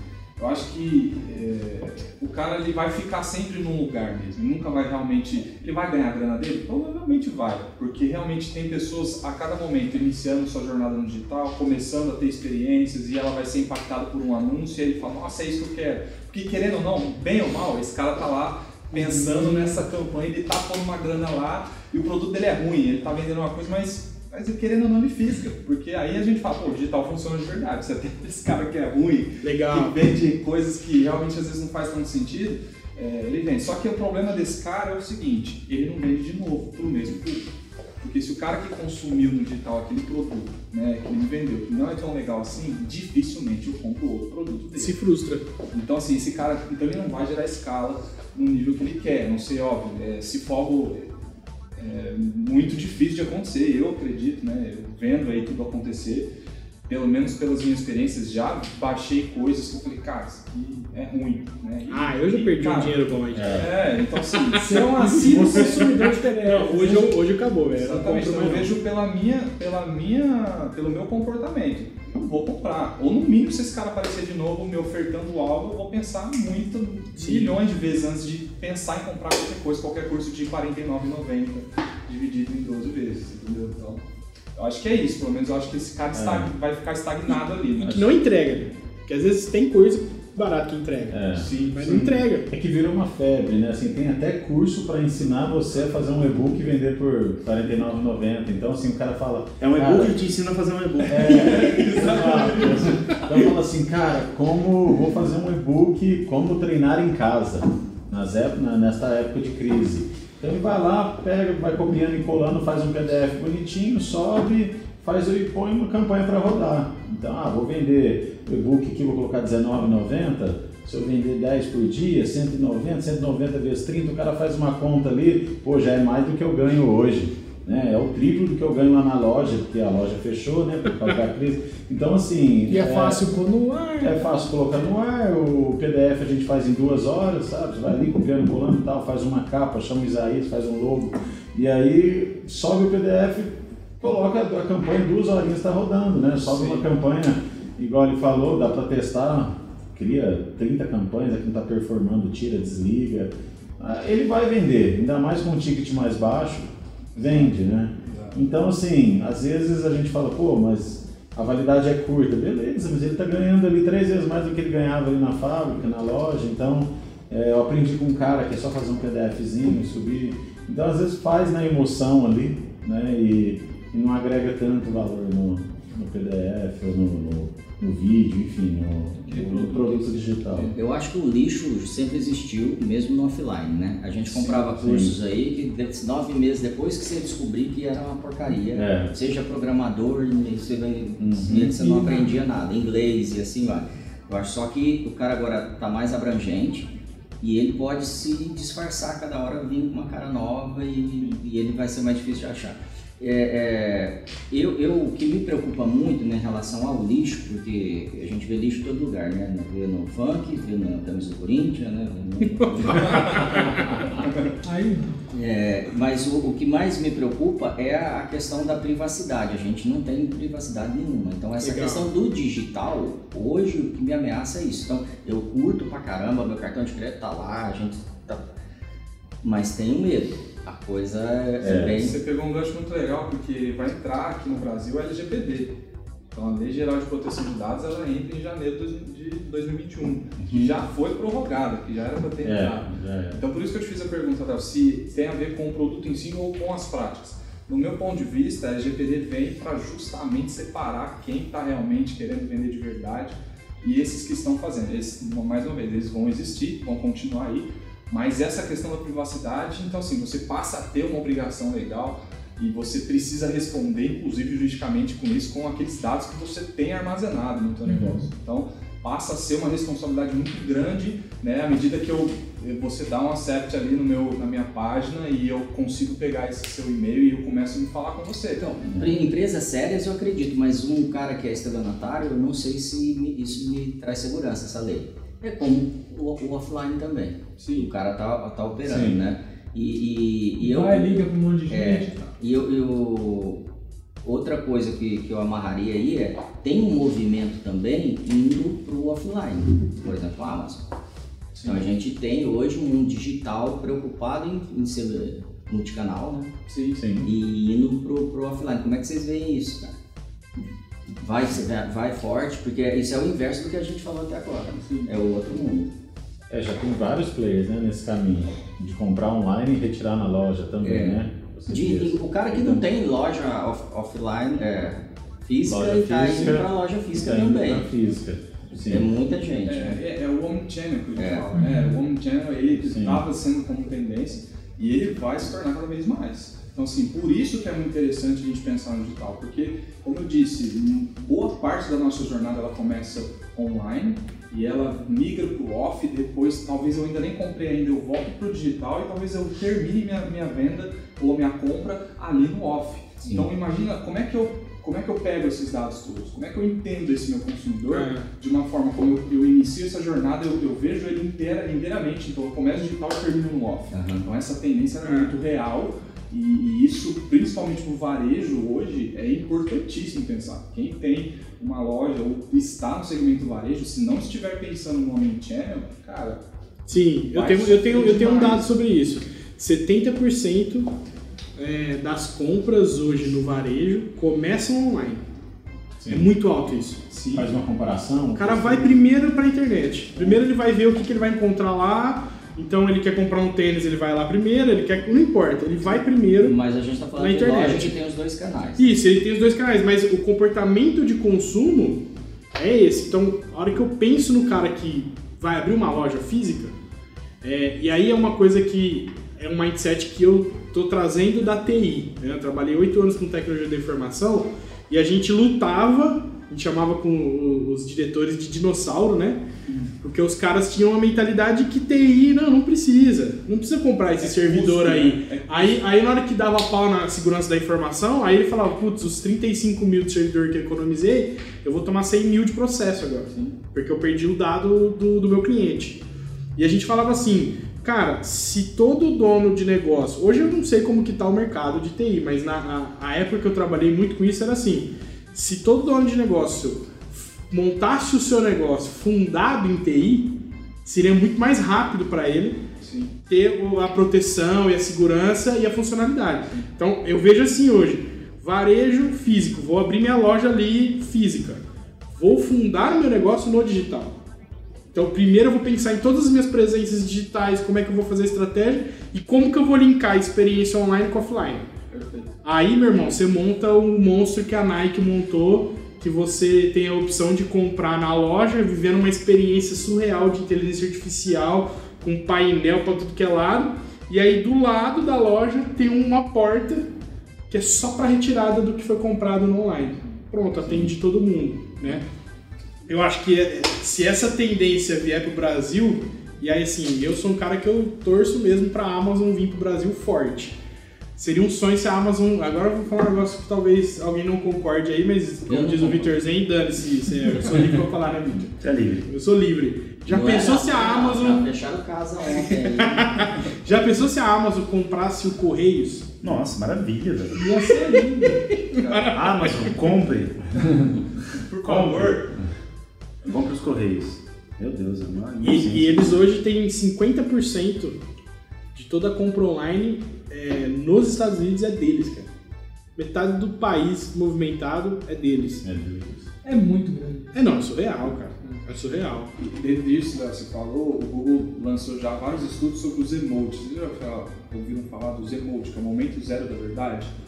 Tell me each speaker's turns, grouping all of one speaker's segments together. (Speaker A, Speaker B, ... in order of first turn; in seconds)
Speaker A: 0.4-37.5, 38.0-45.0, 45.7-51.1, 51.8-56.3, 56.9-65.8, 66.5-67.1, 67.7-84.0, 84.5-88.0, 91.3-92.2, 101.2-103.2, 157.2-157.5, 158.1-158.4, 179.2-180.7, 184.3-184.7, 191.8-192.2, 212.8-214.5, 231.7-235.8, 236.3-278.8, 287.6-287.9, 301.6-301.8, 306.7-307.0, 314.7-315.1, 329.7-376.4, 377.3-378.7, 387.1-387.4, 424.2-425.8, 433.3-433.6, 452.8-453.1, 471.9-472.3, 518.7-519.5, 521.5-522.3, 539.4-547.1
Speaker B: 19.0-19.8, 29.4-30.0, 44.7-45.5, 61.9-63.6, 64.5-68.7, 77.2-77.6, 87.8-91.2, 91.7-92.5, 212.6-213.6, 221.6-222.1, 357.9-358.3, 365.0-365.3, 376.9-380.9, 381.6-385.2, 386.1-387.0, 388.3-396.5, 397.2-397.9, 398.8-402.0, 402.6-406.7, 407.4-419.4, 420.0-436.0, 436.6-450.3, 450.8-452.6, 453.3-461.6, 462.1-464.1, 464.9-471.7, 472.4-486.9, 487.5-492.0, 492.9-500.6, 501.2-511.5, 512.7-516.1, 517.4-519.7, 525.4-528.0, 528.7-532.3, 533.0-535.6, 537.3-539.3
Speaker C: 63.3-63.7, 65.3-65.7, 86.1-86.5, 91.1-91.5, 92.5-100.2, 101.1-133.2, 134.0-180.7, 184.8-185.1, 188.7-189.1, 191.2-191.8, 231.6-232.1, 242.4-243.4, 267.9-268.2, 278.9-279.2, 288.8-289.2, 306.9-307.3, 316.5-322.8, 325.6-329.1, 332.8-333.2, 386.0-386.3, 387.3-389.0, 535.6-536.3
Speaker D: 64.6-66.9, 132.7-134.3, 214.6-215.2, 290.6-292.4, 331.6-331.9, 517.4-518.4, 536.4-537.3
Speaker E: 99.6-101.7, 508.6-509.1, 516.2-517.4, 519.1-520.6, 521.6-522.3, 523.3-526.1
Speaker F: 180.7-196.9, 197.4-213.5, 215.3-228.5, 229.4-232.1, 278.6-293.6, 294.2-300.8, 301.6-306.5, 307.2-309.9, 311.2-315.9, 320.8-327.9, 328.9-330.0, 331.2-331.5, 363.9-364.3, 396.4-398.9, 505.5-506.2, 510.1-513.3